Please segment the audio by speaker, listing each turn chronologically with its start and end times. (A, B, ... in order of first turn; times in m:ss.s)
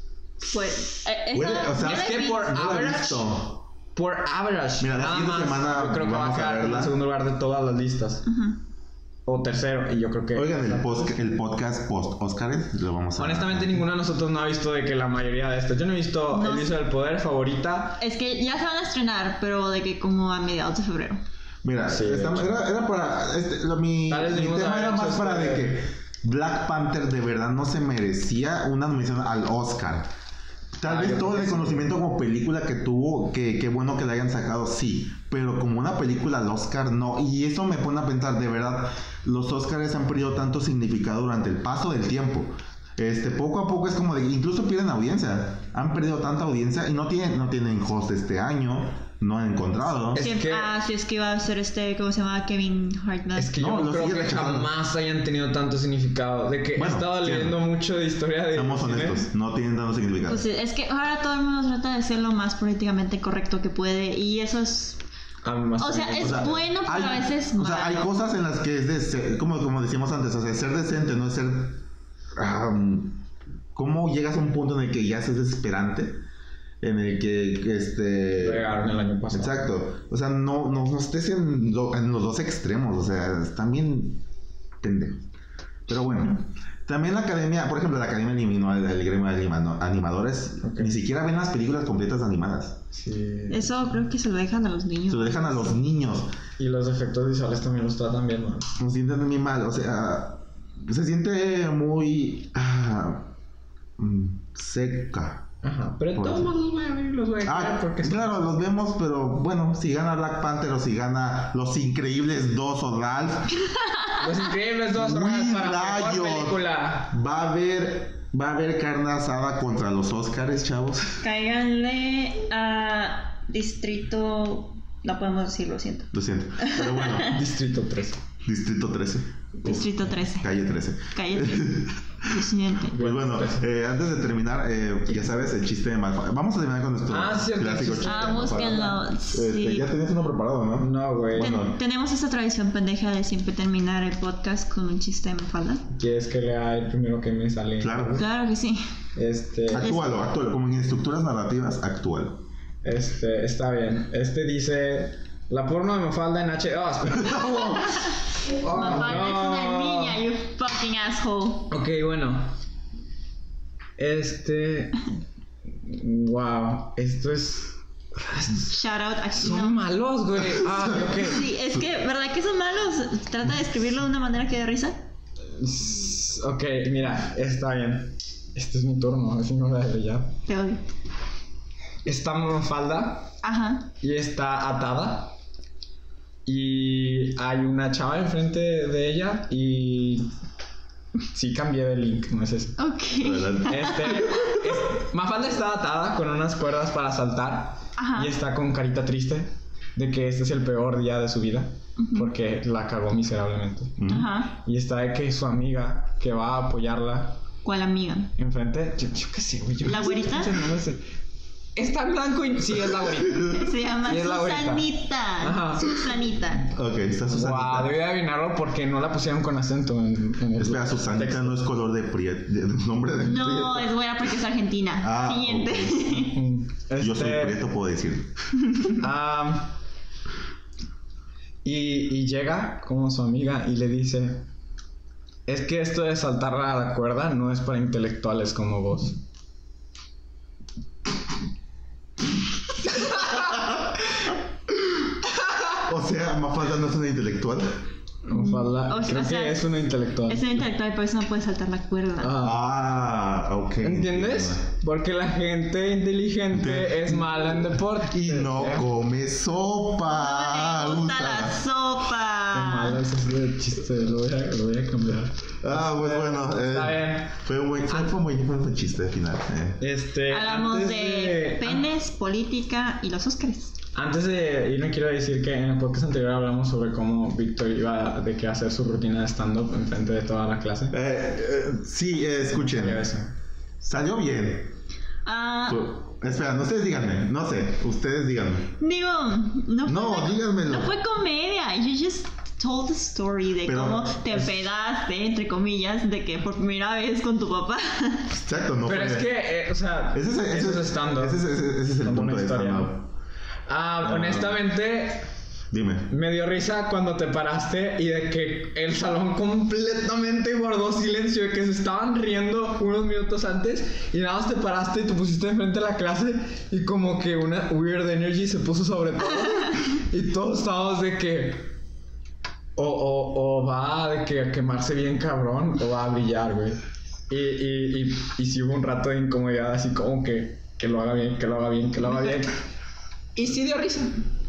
0:00.5-0:02.5 A
0:01.3-0:03.6 B
0:01.8-0:03.3 C
0:03.9-0:08.2 C
0:04.8-0:06.9 B
0:08.2-0:08.6 A
0:09.2-0:11.1 C
0:10.3-0:13.8 B
0:13.2-0:18.0 C
0:16.3-0:16.7 A
0:18.0-0:21.2 A
0:21.6-0:30.1 B
0:21.8-0:22.6 C
0:24.1-0:25.8 C
0:30.8-0:50.2 B
0:30.8-0:31.9 C
0:50.1-0:50.7 C
0:50.2-0:53.5 A
0:53.3-0:59.3 C
0:53.5-0:54.7 B
0:56.7-0:57.6 B
0:58.5-1:00.4 B
1:00.2-1:05.0 A
1:05.4-1:06.6 C
1:05.8-1:08.1 A
1:06.2-1:11.8 B
1:12.4-1:13.2 B
1:13.7-1:16.2 B
1:16.8-1:18.8 B
1:18.4-1:19.7 C
1:19.3-1:24.2 B
1:24.8-1:25.2 B
1:25.9-1:32.8 B
1:30.6-1:31.0 C
1:32.9-1:34.0 C
1:33.5-1:35.8 A
1:35.1-1:36.3 B
1:36.6-1:38.7 C
1:38.8-1:43.3 B
1:44.0-1:45.5 B
1:45.6-1:48.6 C
1:46.1-1:46.5 B
1:47.4-1:53.6 B
1:54.2-1:57.1 C
1:54.9-2:01.2 B
2:01.2-2:07.3 A
2:06.1-2:07.4 B
2:07.2-2:08.2 C
2:08.4-2:12.3 B
2:09.6-2:12.9 A
2:12.9-2:13.7 C
2:12.9-2:21.8 B
2:17.1-2:19.0 C
2:18.0-2:19.9 A
2:20.8-2:21.6 C
2:21.4-2:25.8 A
2:25.9-2:28.2 C
2:27.8-2:28.2 B
2:28.1-2:28.8 A
2:29.2-2:30.0 C
2:29.7-2:32.4 B
2:29.8-2:30.1 A
2:32.8-2:40.2 C
2:37.2-2:37.7 B
2:38.6-2:41.7 A
2:41.7-2:42.5 C
2:44.0-2:45.1 C
2:45.8-2:48.7 C
2:48.7-2:49.8 A
2:49.4-2:51.4 C
2:51.2-2:55.0 A
2:55.5-3:00.4 C
3:00.5-3:00.8 A
3:02.0-3:03.3 C
3:03.4-3:03.9 A
3:04.0-3:05.4 C
3:06.4-3:10.3 C
3:11.3-3:12.8 C
3:12.8-3:14.2 A
3:13.2-3:14.6 B
3:13.7-3:24.0 C
3:18.0-3:18.3 A
3:22.0-3:22.3 A
3:24.0-3:24.3 B
3:24.1-3:24.5 A
3:24.5-3:27.4 C
3:27.6-3:28.3 A
3:28.4-3:31.0 C
3:29.8-3:30.6 A
3:31.8-3:34.8 C
3:33.5-3:36.7 A
3:35.4-3:35.9 C
3:36.7-3:37.9 B
3:37.3-3:41.6 C
3:40.6-3:43.9 B
3:43.2-3:46.4 A
3:45.0-3:46.3 B
3:46.3-3:47.6 C
3:47.0-3:48.3 B
3:49.0-3:49.7 C
3:51.6-3:54.4 C
3:55.4-3:59.2 C
4:02.9-4:03.5 C
4:05.3-4:05.8 C
4:05.8-4:07.7 B
4:08.2-4:10.4 C
4:08.3-4:12.3 A
4:12.2-4:12.6 C
4:12.4-4:14.6 B
4:13.8-4:18.9 C
4:16.5-4:21.6 B
4:20.0-4:23.0 A
4:22.5-4:27.4 C
4:25.6-4:29.8 B
4:29.8-4:31.8 C
4:30.3-4:33.7 A
4:33.9-4:41.0 C
4:40.9-4:43.0 B
4:42.5-4:43.3 C
4:43.8-4:44.7 B
4:45.2-4:45.9 A
4:45.7-4:48.7 B
4:48.8-4:58.3 A
4:49.8-4:50.9 B
4:53.6-4:54.2 B
4:58.3-4:59.3 B
4:58.8-5:01.4 C
5:00.1-5:03.0 B
5:02.0-5:02.9 C
5:03.7-5:05.2 C
5:04.0-5:04.6 B
5:05.7-5:06.1 B
5:06.1-5:21.7 C
5:22.8-5:26.8 C
5:27.3-5:32.6 C
5:33.4-5:34.2 C